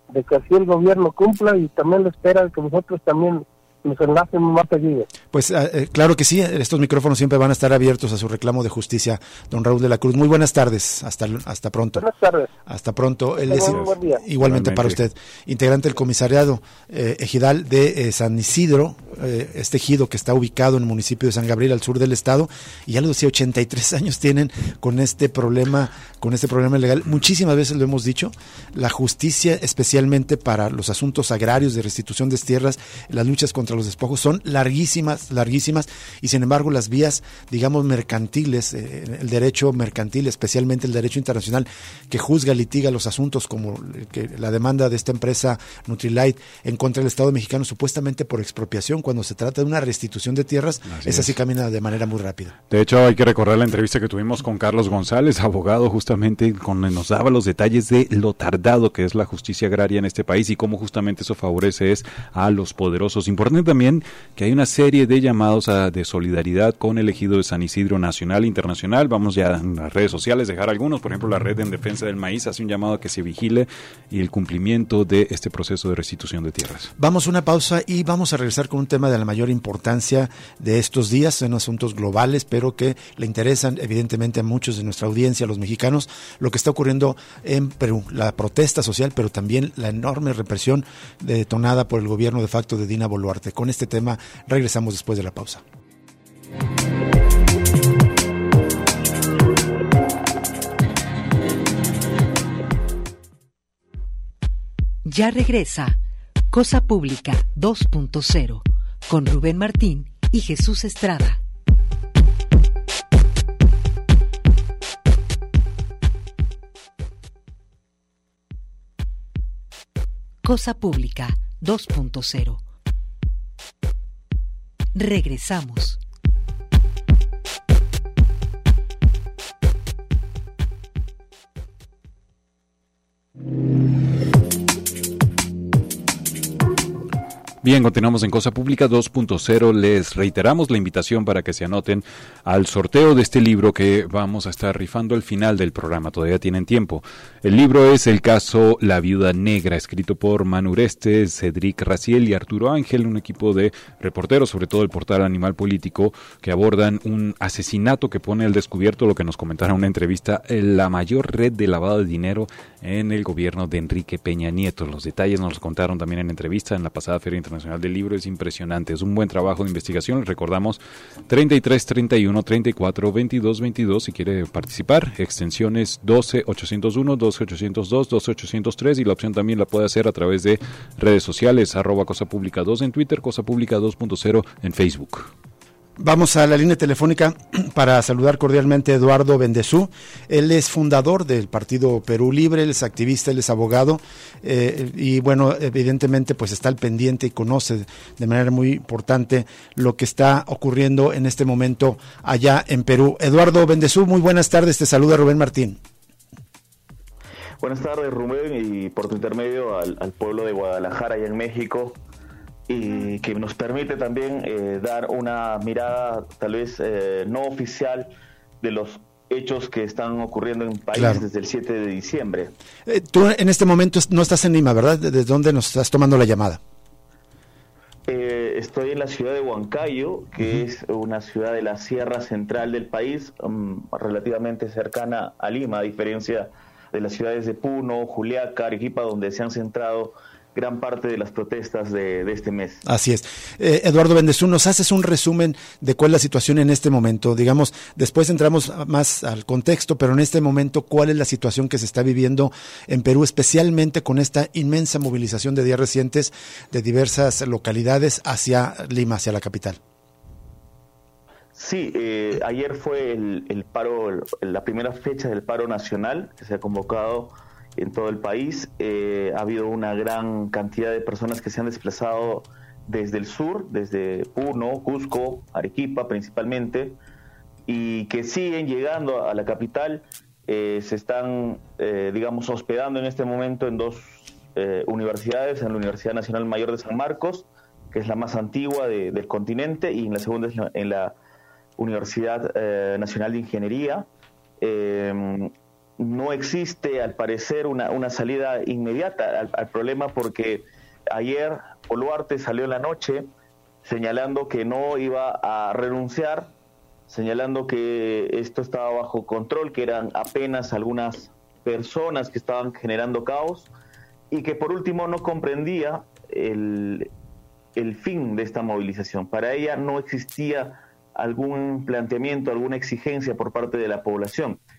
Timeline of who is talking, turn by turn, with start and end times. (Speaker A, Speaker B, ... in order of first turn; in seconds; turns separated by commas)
Speaker A: 0.1-5.1, Speaker B: 5.3-12.1, Speaker A: 12.0-12.5, Speaker B: 12.7-52.5, Speaker A: 13.5-14.2, Speaker C: 13.6-15.0, Speaker C: 50.9-51.3, Speaker C: 52.7-76.9, Speaker B: 77.0-95.6, Speaker D: 105.0-106.0, Speaker D: 106.5-111.4, Speaker D: 120.4-122.6, Speaker D: 124.9-126.0, Speaker C: 137.6-185.3, Speaker B: 186.0-205.8, Speaker E: 207.6-212.0, Speaker E: 212.7-222.5, Speaker B: 220.9-221.2, Speaker B: 222.9-226.6, Speaker E: 228.1-242.8, Speaker B: 242.8-259.8, Speaker E: 261.5-277.0, Speaker E: 277.7-291.1, Speaker E: 291.8-294.1, Speaker E: 294.6-303.3, Speaker E: 303.8-306.5, Speaker E: 307.1-313.7, Speaker E: 314.3-317.1, Speaker E: 317.8-324.6